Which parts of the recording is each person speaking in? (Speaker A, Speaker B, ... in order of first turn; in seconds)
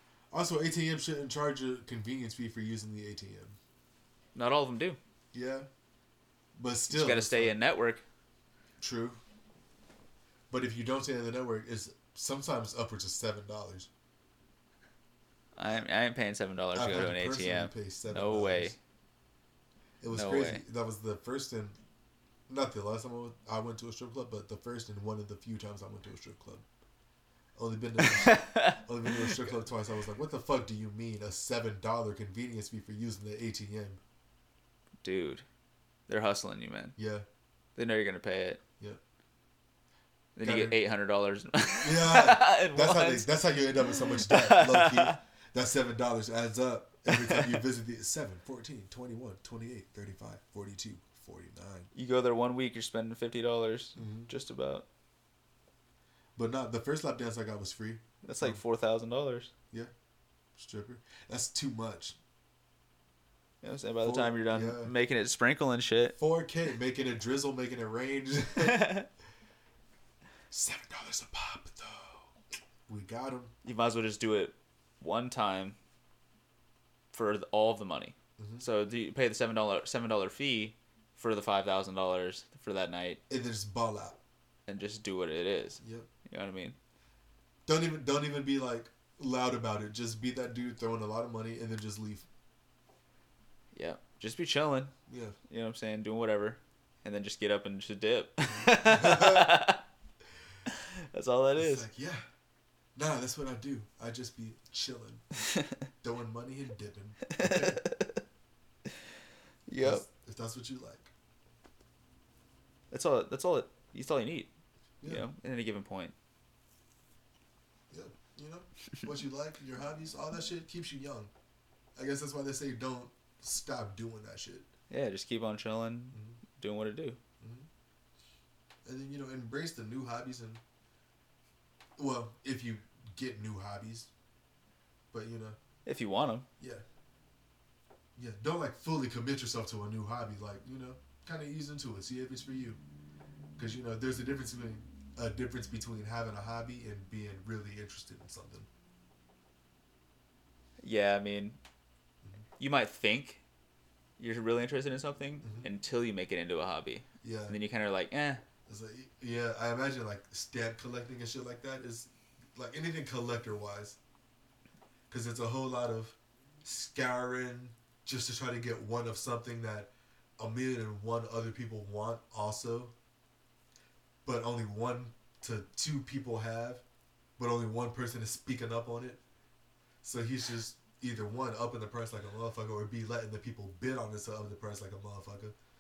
Speaker A: 0.3-3.6, 5.3-5.7, 6.5-7.6, 8.8-9.2, 10.5-13.9, 16.7-18.8, 20.0-21.8, 22.5-26.6, 27.6-34.0, 37.0-37.2, 40.4-40.8, 41.8-51.9, 54.0-54.3, 56.4-58.6, 60.6-62.2, 64.0-64.9, 66.2-68.9, 70.5-72.3, 72.9-73.5, 78.4-78.6, 83.3-84.2, 85.8-86.1, 87.7-92.3, 95.1-95.3, 98.5-99.5, 101.6-102.2, 102.9-105.2, 106.0-107.8, 109.8-111.1, 115.0-115.3, 117.9-121.3, 122.0-124.7, 126.1-126.4, 127.4-127.7, 128.8-130.6, 132.0-134.1, 135.1-135.6, 136.6-136.8, 138.2-142.8, 143.6-148.7, 155.4-155.7, 157.2-157.6, 158.7-164.0, 165.1-172.9, 174.2-176.8, 177.4-179.2, 180.0-185.6
Speaker B: 4.3-5.0, 6.9-8.0, 15.6-18.8, 20.1-20.6, 28.0-29.5, 35.0-35.4, 36.1-37.0, 37.8-38.6, 40.4-43.3, 43.8-45.2, 47.1-47.6, 51.9-54.9, 58.2-59.5, 63.6-66.2, 68.6-69.1, 73.6-75.8, 77.1-83.2, 84.7-86.8, 93.7-94.9, 95.5-99.8, 100.7-101.9, 105.4-105.8, 107.3-108.2, 109.7-110.0, 112.9-114.5, 115.0-116.1, 124.9-127.2, 135.8-136.5, 150.8-151.6, 152.6-153.4, 154.2-158.4